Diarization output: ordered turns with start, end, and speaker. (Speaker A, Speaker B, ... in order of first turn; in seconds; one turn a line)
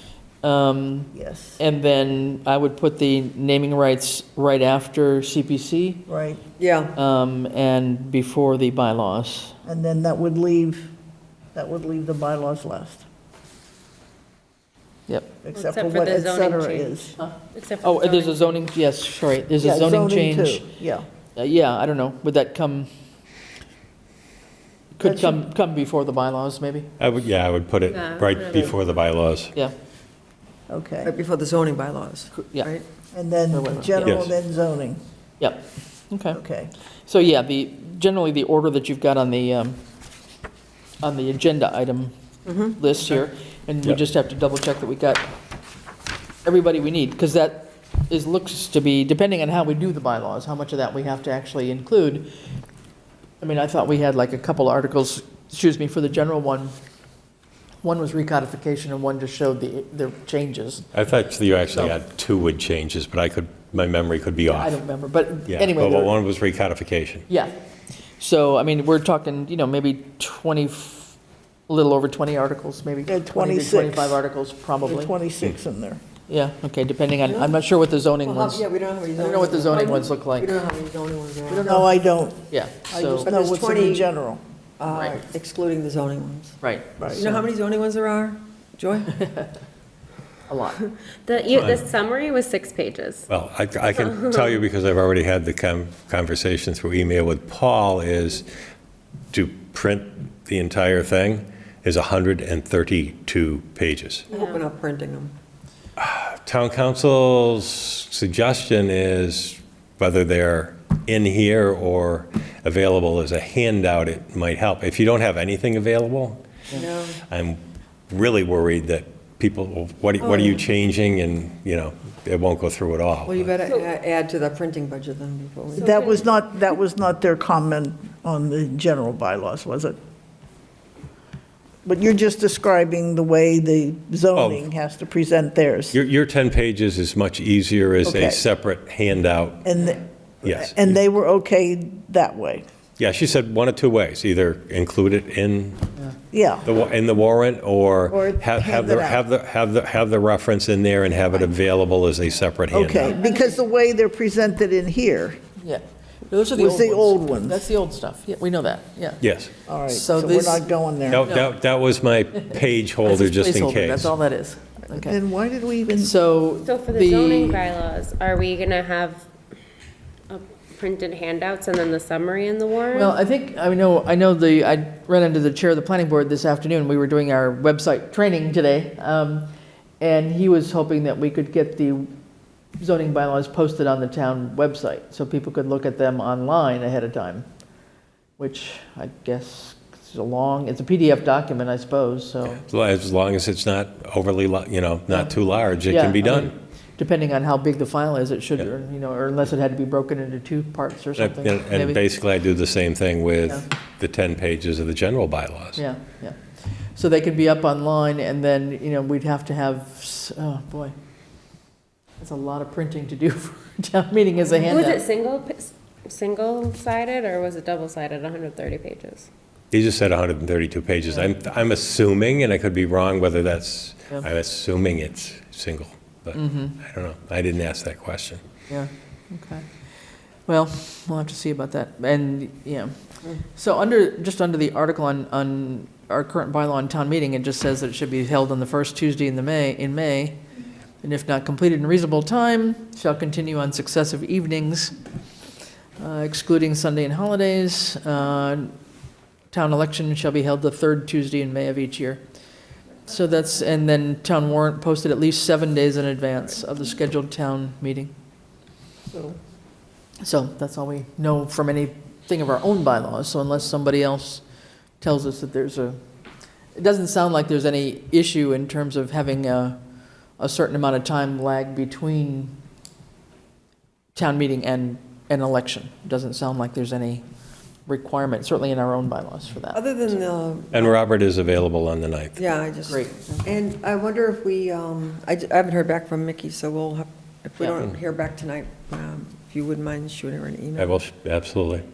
Speaker A: 0.4-6.0
Speaker B: 1.1-1.6
Speaker B: 6.1-6.4
Speaker C: 6.6-6.9
Speaker A: 7.0-9.6
Speaker B: 9.6-10.9
Speaker B: 11.5-13.0
Speaker A: 15.1-15.4
Speaker B: 15.4-17.1
Speaker D: 15.5-18.6
Speaker A: 17.2-20.6
Speaker B: 19.6-21.1
Speaker A: 21.4-22.9
Speaker A: 24.9-26.9
Speaker B: 25.0-25.4
Speaker E: 27.0-29.5
Speaker D: 27.9-28.7
Speaker B: 30.7-31.1
Speaker C: 31.0-32.8
Speaker A: 32.3-32.7
Speaker B: 33.1-35.0
Speaker A: 33.5-34.2
Speaker E: 34.0-34.3
Speaker A: 35.4-36.4
Speaker B: 36.3-36.7
Speaker A: 37.0-39.8
Speaker A: 41.0-42.1
Speaker C: 42.5-42.7
Speaker A: 42.6-45.3
Speaker A: 46.4-52.3
Speaker A: 53.4-56.7
Speaker A: 57.8-60.9
Speaker E: 60.9-64.8
Speaker A: 61.7-62.0
Speaker A: 64.4-66.1
Speaker E: 65.5-67.2
Speaker A: 68.2-71.2
Speaker A: 71.7-75.1
Speaker B: 73.1-74.2
Speaker B: 74.8-76.0
Speaker A: 76.3-78.6
Speaker C: 77.2-77.6
Speaker C: 78.2-81.7
Speaker A: 79.2-80.6
Speaker A: 81.5-82.0
Speaker B: 81.7-82.4
Speaker A: 82.5-83.2
Speaker C: 82.9-84.1
Speaker B: 83.2-84.4
Speaker C: 84.8-86.6
Speaker A: 84.9-85.2
Speaker A: 86.6-87.4
Speaker B: 87.0-87.2
Speaker C: 87.2-89.2
Speaker A: 89.2-89.4
Speaker A: 90.5-90.8
Speaker D: 91.2-93.3
Speaker E: 91.5-91.9
Speaker E: 93.3-98.5
Speaker D: 93.8-94.6
Speaker E: 99.3-104.3
Speaker C: 104.3-105.3
Speaker E: 106.0-116.4
Speaker C: 116.7-117.2
Speaker E: 117.2-123.5
Speaker C: 120.2-120.6
Speaker C: 123.2-126.2
Speaker D: 125.8-126.0
Speaker B: 125.8-130.0
Speaker B: 131.8-136.0
Speaker E: 134.3-134.7
Speaker E: 135.9-139.7
Speaker B: 138.0-138.4
Speaker B: 139.6-142.6
Speaker E: 140.4-140.9
Speaker E: 143.0-145.9
Speaker B: 146.3-146.7
Speaker E: 146.6-153.2
Speaker B: 148.1-149.2
Speaker B: 152.7-155.4
Speaker A: 155.6-159.3
Speaker B: 156.5-157.7
Speaker E: 159.2-159.5
Speaker B: 159.7-161.3
Speaker A: 159.8-160.7
Speaker E: 161.1-164.1
Speaker A: 161.2-161.5
Speaker A: 162.5-165.2
Speaker B: 164.9-166.1
Speaker A: 166.0-167.7
Speaker D: 166.6-169.3
Speaker D: 170.3-173.2
Speaker A: 172.9-179.5
Speaker A: 180.0-182.1
Speaker A: 182.8-187.4
Speaker A: 188.4-192.6
Speaker E: 192.7-196.5
Speaker A: 195.8-202.0
Speaker E: 201.2-205.8
Speaker A: 205.8-210.9
Speaker A: 212.2-215.0
Speaker D: 214.5-219.3
Speaker E: 219.7-228.4
Speaker A: 226.3-226.8
Speaker A: 228.7-229.7
Speaker A: 230.4-240.4
Speaker A: 241.0-244.9
Speaker A: 246.0-248.7
Speaker A: 249.5-252.2
Speaker A: 253.1-258.1
Speaker A: 260.2-264.4
Speaker A: 265.0-266.0
Speaker A: 266.7-269.8
Speaker A: 270.4-272.5
Speaker A: 274.1-277.2
Speaker A: 277.9-279.8
Speaker C: 279.7-280.9
Speaker E: 280.7-282.5
Speaker C: 282.4-291.0
Speaker A: 282.8-283.5
Speaker E: 290.8-291.8